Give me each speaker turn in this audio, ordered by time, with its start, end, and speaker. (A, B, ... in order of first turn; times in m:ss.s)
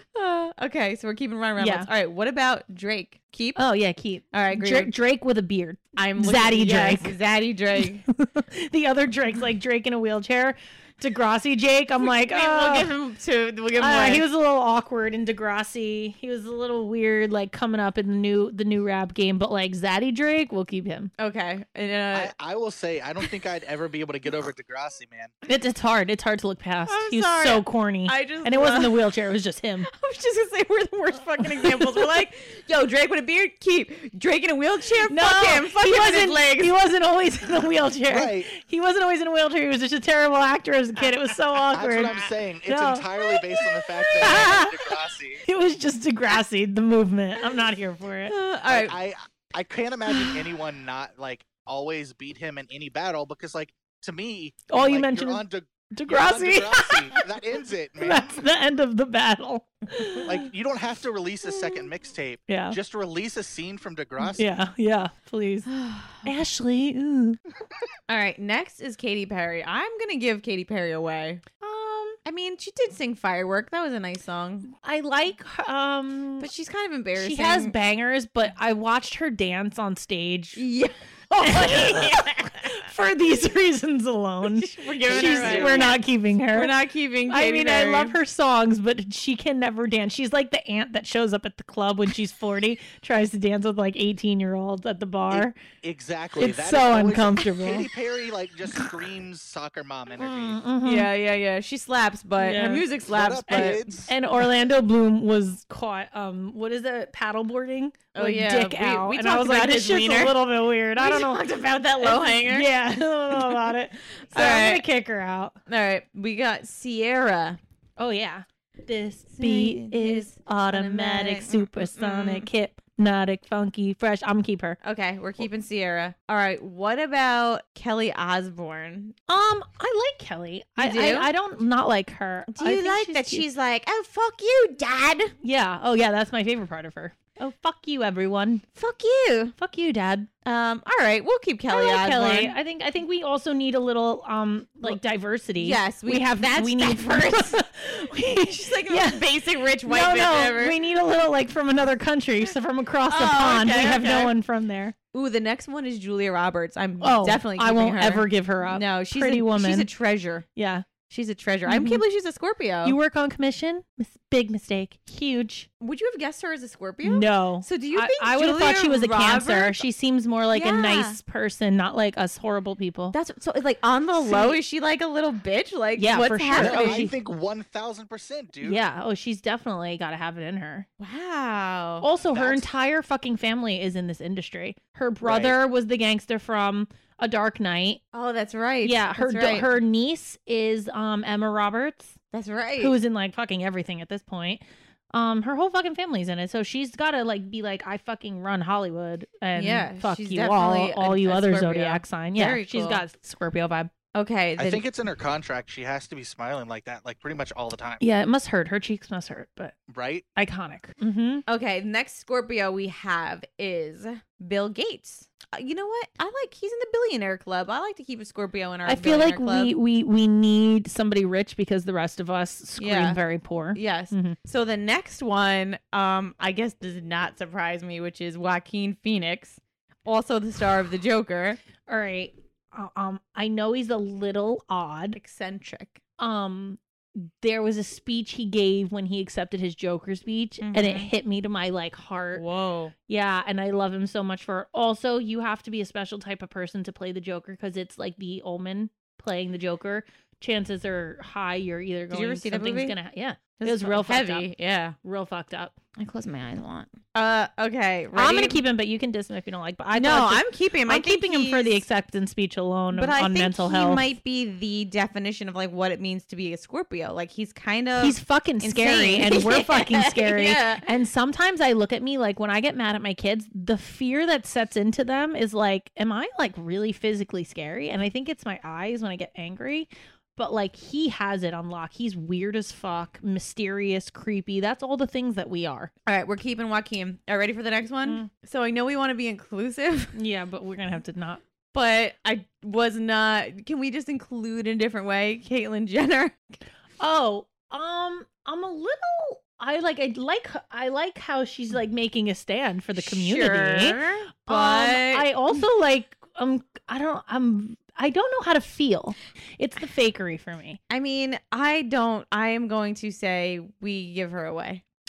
0:00.1-0:03.6 A
0:01.6-0:01.9 B
0:03.6-0:07.1 B
0:04.3-0:04.9 A
0:06.0-0:08.0 A
0:07.8-0:12.9 B
0:12.0-0:14.2 A
0:13.8-0:21.1 B
0:21.2-0:22.3 A
0:22.1-0:25.3 C
0:25.4-0:29.9 B
0:26.9-0:29.0 A
0:29.9-0:36.7 A
0:31.6-0:31.9 B
0:35.1-0:43.1 B
0:38.1-0:38.5 C
0:41.7-0:45.4 C
0:44.0-0:44.6 A
0:44.2-0:44.8 B
0:45.4-0:48.3 B
0:48.3-0:49.0 A
0:48.7-0:58.4 C
0:54.7-0:57.2 B
0:58.0-1:00.5 B
1:00.2-1:04.5 C
1:02.5-1:02.8 B
1:04.4-1:05.7 B
1:05.7-1:06.3 A
1:06.2-1:07.4 B
1:08.1-1:11.4 A
1:11.6-1:12.2 B
1:12.2-1:14.7 A
1:14.8-1:16.5 B
1:16.4-1:17.7 A
1:17.2-1:20.6 B
1:20.6-1:22.8 A
1:21.4-1:26.7 B
1:24.4-1:26.0 A
1:25.1-1:26.0 C
1:26.5-1:28.2 A
1:27.3-1:35.6 B
1:35.3-1:40.6 C
1:36.4-1:37.9 B
1:40.2-1:41.1 B
1:40.8-1:43.8 A
1:42.4-1:42.8 B
1:43.1-1:44.1 C
1:43.5-1:51.4 B
1:48.1-1:50.4 A
1:51.0-1:52.7 A
1:52.0-1:55.5 B
1:54.3-1:54.8 A
1:55.7-1:57.6 A
1:58.0-2:04.8 B
1:59.3-2:02.5 A
2:04.8-2:09.1 A
2:09.3-2:13.4 B
2:10.8-2:11.3 A
2:12.5-2:15.3 A
2:15.4-2:18.6 B
2:18.8-2:19.6 A
2:19.6-2:20.3 B
2:20.4-2:22.6 A
2:21.7-2:34.9 B
2:25.6-2:27.6 A
2:28.3-2:30.8 A
2:33.1-2:34.3 A
2:35.1-2:40.4 A
2:37.0-2:39.9 B
2:40.6-2:40.8 B
2:41.1-2:43.0 A
2:41.6-2:42.0 B
2:42.8-2:45.7 B
2:45.8-2:49.8 A
2:47.0-2:53.2 B
2:50.5-2:51.2 A
2:53.1-2:57.0 A
2:54.2-2:54.6 B
2:56.0-2:57.2 B
2:56.5-2:58.8 C
2:58.6-3:00.9 B
3:01.0-3:02.0 A
3:02.0-3:08.0 B
3:02.2-3:02.7 C
3:05.2-3:05.6 C
3:08.1-3:09.7 A
3:08.8-3:12.2 B
3:12.3-3:12.9 A
3:12.8-3:23.9 B
3:19.6-3:23.0 A
3:24.1-3:24.8 A
3:24.6-3:28.0 C
3:28.0-3:29.7 B
3:29.9-3:30.2 C
3:30.4-3:31.4 B
3:31.5-3:39.7 A
3:38.8-3:44.4 B
3:42.8-3:43.2 A
3:43.7-3:51.6 A
3:51.9-3:55.2 B
3:55.1-3:56.0 A
3:56.2-4:02.4 B
4:00.6-4:01.1 A
4:02.3-4:02.9 A
4:03.1-4:14.5 B
4:12.1-4:12.9 A
4:13.6-4:15.0 A
4:15.0-4:15.7 B
4:16.0-4:18.6 A
4:18.1-4:24.1 B
4:19.9-4:21.8 A
4:22.9-4:30.8 A
4:28.0-4:45.9 B
4:46.0-4:50.1 A
4:50.1-4:51.4 B
4:51.7-4:56.4 A
4:57.0-5:10.8 B
5:03.0-5:05.3 A
5:10.9-5:14.8 A